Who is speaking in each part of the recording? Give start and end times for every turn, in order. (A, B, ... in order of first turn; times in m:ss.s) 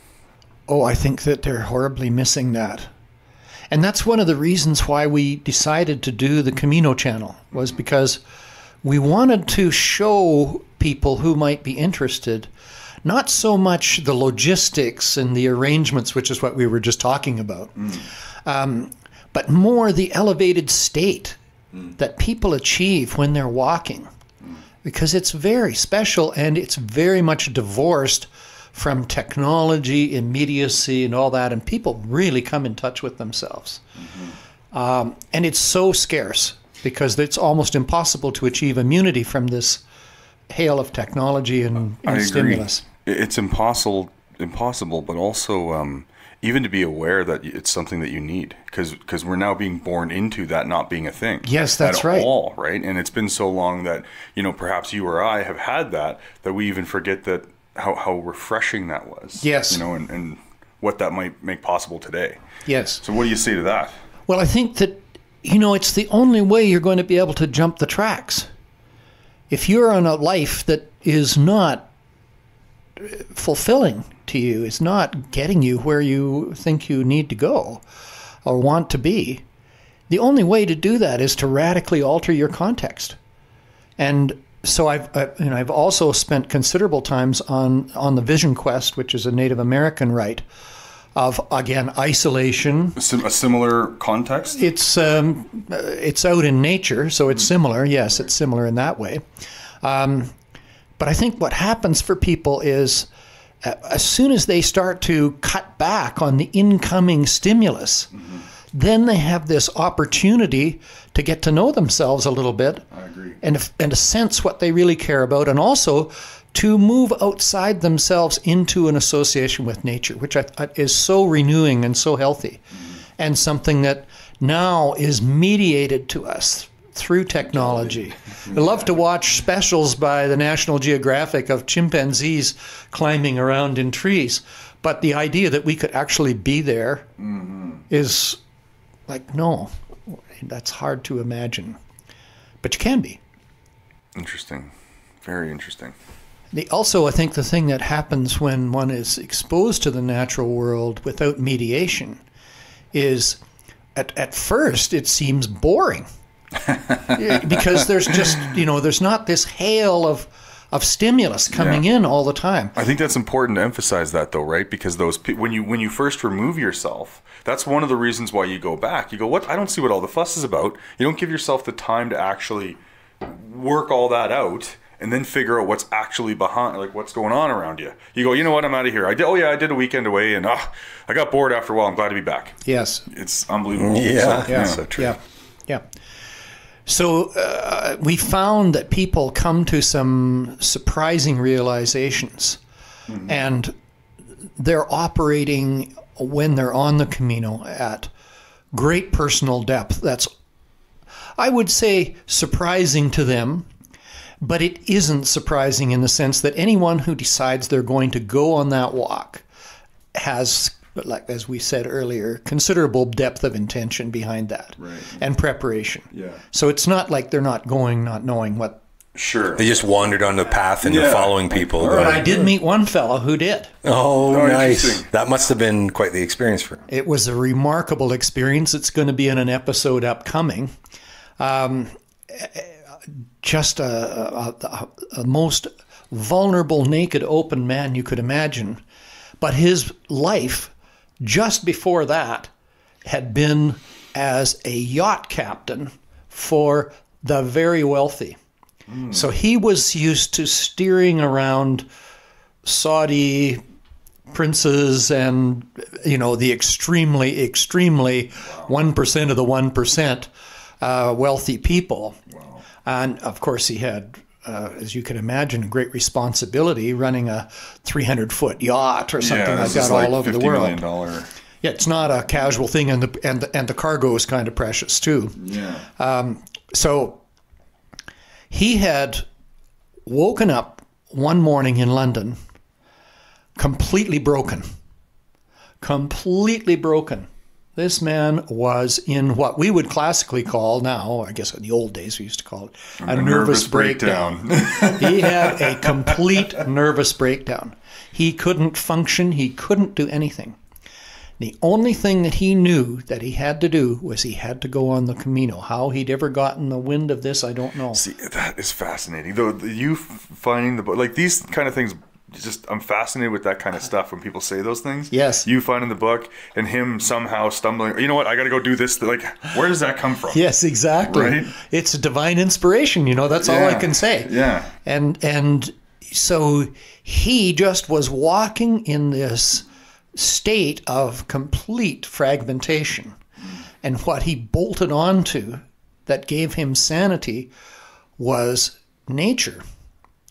0:00.7-0:02.9 A
0:03.7-0:08.2 A
0:08.8-0:12.5 A
0:13.0-0:21.4 A
0:22.0-0:24.1 A
0:24.8-0:33.8 A
0:34.7-0:39.8 A
0:40.5-0:42.8 A
0:42.0-1:02.4 B
0:51.4-0:52.3 A
0:59.4-0:59.8 A
1:02.6-1:03.0 A
1:03.0-1:03.9 B
1:04.3-1:08.5 A
1:09.5-1:11.9 A
1:13.0-1:17.8 A
1:18.4-1:19.4 A
1:20.1-1:23.2 A
1:24.0-1:30.4 A
1:31.2-1:33.0 A
1:33.0-1:34.6 B
1:34.5-1:39.2 A
1:39.8-1:40.3 A
1:41.0-1:43.1 A
1:43.6-1:48.1 A
1:48.7-1:52.8 A
1:52.9-1:53.4 B
1:53.4-2:02.6 A
2:03.2-2:17.0 A
2:17.3-2:17.8 B
2:17.9-2:18.4 A
2:19.1-2:21.8 A
2:22.6-2:23.2 A
2:24.1-2:24.7 B
2:25.2-2:25.9 B
2:26.5-2:32.2 A
2:32.9-2:33.4 A
2:34.0-2:36.1 A
2:36.7-2:37.2 B
2:37.1-2:42.7 A
2:41.5-2:41.8 B
2:42.8-3:04.8 B
3:02.6-3:03.0 A
3:03.8-3:05.2 C
3:04.5-3:05.8 A
3:06.9-3:12.6 A
3:13.2-3:13.7 A
3:14.6-3:18.1 A
3:18.7-3:20.3 A
3:21.4-3:23.7 A
3:24.4-3:29.4 A
3:30.1-3:38.8 A
3:34.8-3:35.2 B
3:36.1-3:36.4 B
3:39.1-3:39.7 B
3:39.5-3:42.4 C
3:40.8-3:42.5 B
3:41.8-3:43.7 A
3:43.8-3:46.8 C
3:44.2-3:45.1 B
3:46.9-3:50.7 A
3:51.4-3:52.7 A
3:53.4-3:58.8 A
3:59.4-4:02.5 A
4:03.0-4:08.4 A
4:08.9-4:09.2 B
4:09.1-4:11.8 A
4:12.6-4:13.6 A
4:14.3-4:20.3 A
4:20.8-4:22.2 A
4:22.3-4:22.6 B
4:22.8-4:30.8 A
4:29.2-4:31.3 B
4:31.6-4:35.4 A
4:35.4-4:35.8 B
4:36.0-4:37.2 A
4:38.5-4:39.2 A
4:40.0-4:42.4 A
4:43.6-4:44.7 A
4:45.8-5:00.6 A
4:53.0-4:56.2 B
5:01.4-5:08.0 A
5:07.9-5:20.4 B
5:15.1-5:15.5 A
5:20.3-5:24.3 A
5:21.0-5:21.5 B
5:23.4-5:24.7 B
5:24.8-5:33.2 A
5:33.8-5:37.5 A
5:38.2-5:39.6 A